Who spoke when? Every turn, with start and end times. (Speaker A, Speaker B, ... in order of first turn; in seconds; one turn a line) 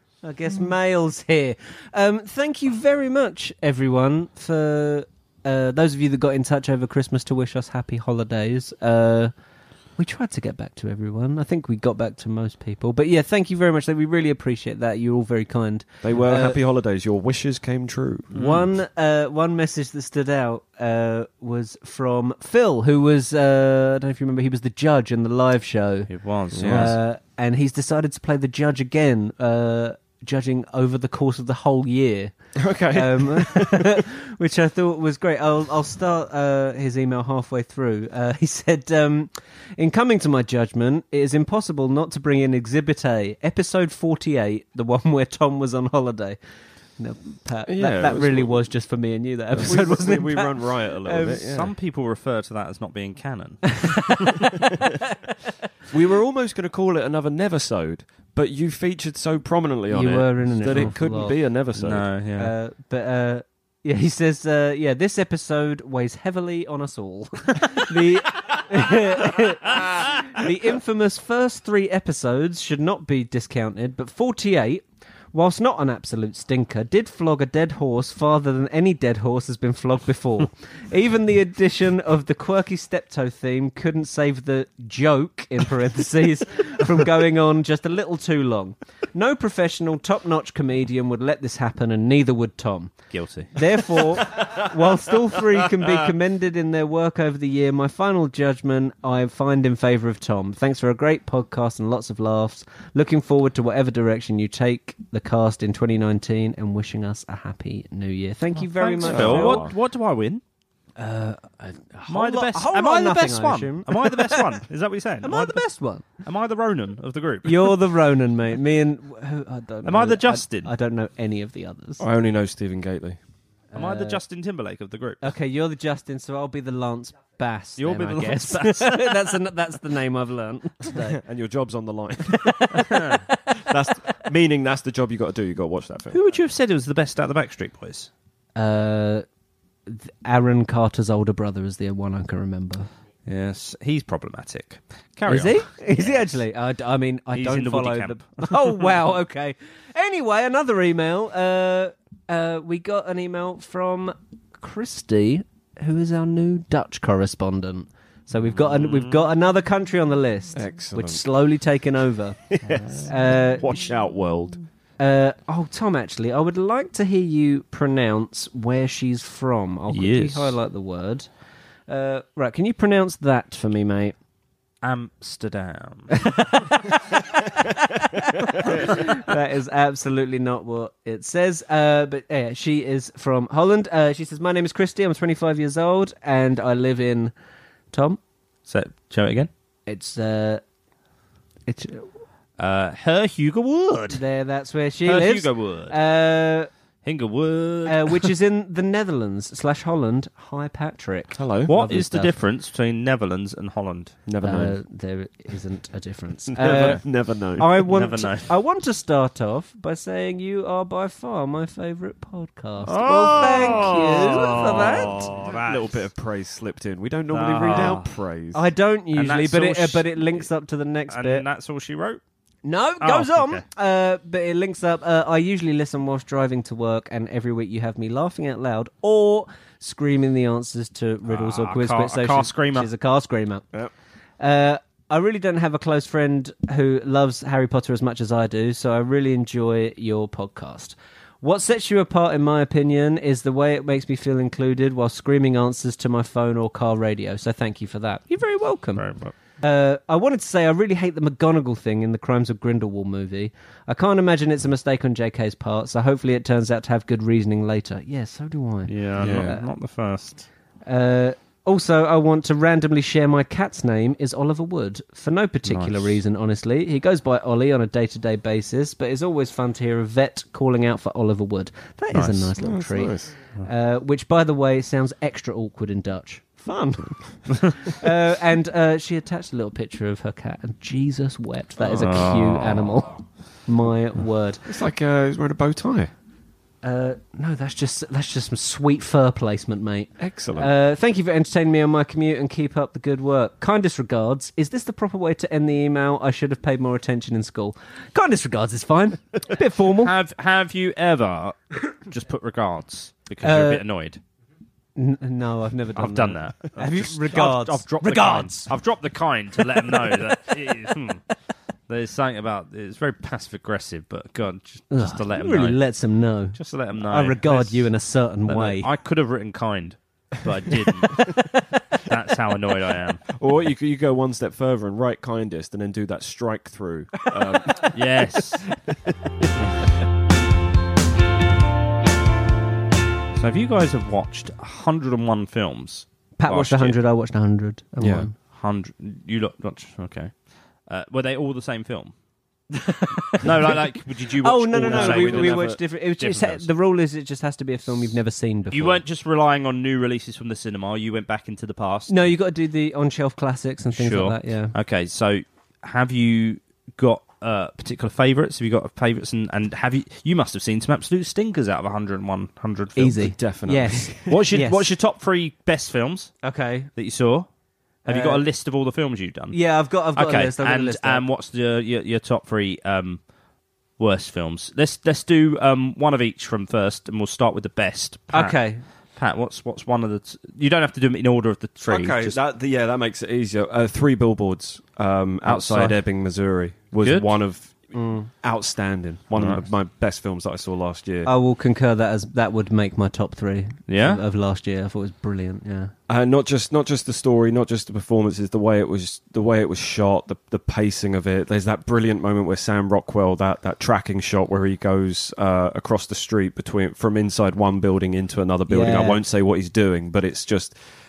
Speaker A: 0.2-9.3
Speaker A: 10.0-16.6
Speaker B: 16.0-18.4
Speaker A: 18.3-32.3
Speaker C: 18.3-18.6
Speaker C: 26.1-26.9
Speaker B: 26.5-26.9
Speaker B: 32.5-34.0
Speaker A: 32.9-46.4
Speaker A: 47.0-51.5
Speaker B: 47.6-48.6
Speaker B: 49.5-51.7
Speaker C: 51.4-54.4
Speaker A: 53.7-54.7
Speaker B: 55.9-62.1
Speaker A: 59.9-61.3
Speaker C: 61.7-62.5
Speaker A: 62.4-93.0
Speaker C: 93.1-94.0
Speaker A: 93.5-109.7
Speaker C: 108.6-110.4
Speaker B: 109.0-109.7
Speaker A: 111.0-114.6
Speaker C: 112.1-115.6
Speaker A: 115.2-116.1
Speaker C: 116.2-117.8
Speaker A: 117.4-122.0
Speaker C: 119.8-120.7
Speaker B: 122.0-123.2
Speaker A: 123.7-124.2
Speaker C: 123.8-125.3
Speaker A: 125.2-131.2
Speaker C: 127.8-129.3
Speaker B: 130.9-136.2
Speaker A: 132.3-133.6
Speaker C: 132.8-133.2
Speaker C: 136.1-138.1
Speaker A: 138.6-139.2
Speaker A: 139.9-142.9
Speaker C: 143.3-146.4
Speaker A: 145.3-162.4
Speaker C: 147.3-148.8
Speaker C: 158.7-159.2
Speaker B: 160.5-161.2
Speaker B: 162.5-164.6
Speaker A: 162.9-163.8
Speaker A: 165.0-171.3
Speaker C: 169.9-170.6
Speaker A: 171.9-174.2
Speaker C: 174.8-176.4
Speaker A: 176.1-187.3
Speaker A: 187.9-188.2
Speaker C: 188.7-189.5
Speaker A: 189.9-190.6
Speaker A: 191.7-192.1
Speaker C: 192.6-194.2
Speaker A: 194.1-196.7
Speaker C: 195.0-195.9
Speaker C: 197.0-198.3
Speaker A: 197.8-202.4
Speaker B: 201.3-201.7
Speaker C: 201.7-204.2
Speaker B: 204.3-204.8
Speaker A: 204.4-207.0
Speaker B: 206.5-207.8
Speaker C: 206.7-206.9
Speaker A: 207.6-215.3
Speaker C: 207.9-208.5
Speaker C: 212.8-216.0
Speaker B: 214.6-218.7
Speaker C: 217.3-218.1
Speaker A: 218.5-221.4
Speaker C: 219.1-220.5
Speaker C: 221.1-222.2
Speaker A: 222.6-233.7
Speaker C: 223.0-223.6
Speaker C: 231.3-232.9
Speaker A: 234.4-249.0
Speaker C: 248.9-249.3
Speaker A: 249.6-259.6
Speaker C: 258.9-260.4
Speaker B: 259.2-259.6
Speaker A: 260.8-284.6
Speaker C: 265.6-266.1
Speaker C: 272.1-272.5
Speaker B: 272.6-273.3
Speaker C: 281.8-283.0
Speaker B: 284.6-286.1
Speaker A: 286.8-300.1
Speaker B: 290.2-290.7
Speaker C: 300.0-304.2
Speaker A: 303.4-303.8
Speaker A: 304.9-308.7
Speaker C: 305.9-311.2
Speaker C: 311.9-315.8
Speaker A: 314.9-318.9
Speaker C: 316.5-317.9
Speaker C: 318.4-323.2
Speaker B: 323.3-328.1
Speaker C: 327.8-328.6
Speaker B: 328.9-329.7
Speaker C: 333.3-336.9
Speaker A: 336.4-338.3
Speaker B: 338.0-338.3
Speaker C: 338.5-340.3
Speaker C: 340.9-342.1
Speaker A: 342.7-343.8
Speaker C: 343.4-346.7
Speaker A: 344.4-349.0
Speaker B: 344.8-345.8
Speaker C: 348.7-352.1
Speaker A: 352.1-354.7
Speaker C: 353.9-363.2
Speaker A: 362.9-364.9
Speaker B: 363.2-364.4
Speaker C: 364.3-366.4
Speaker A: 366.4-366.9
Speaker C: 366.9-367.5
Speaker A: 368.0-368.4
Speaker C: 368.0-369.6
Speaker A: 369.5-371.2
Speaker C: 370.1-373.2
Speaker C: 374.0-378.6
Speaker A: 378.3-378.8
Speaker C: 379.1-382.4
Speaker B: 381.9-391.3
Speaker C: 385.4-386.0
Speaker C: 387.0-387.3
Speaker A: 387.9-388.3
Speaker C: 389.4-389.6
Speaker A: 391.2-395.9
Speaker C: 393.9-394.2
Speaker B: 396.1-410.8
Speaker A: 408.7-409.2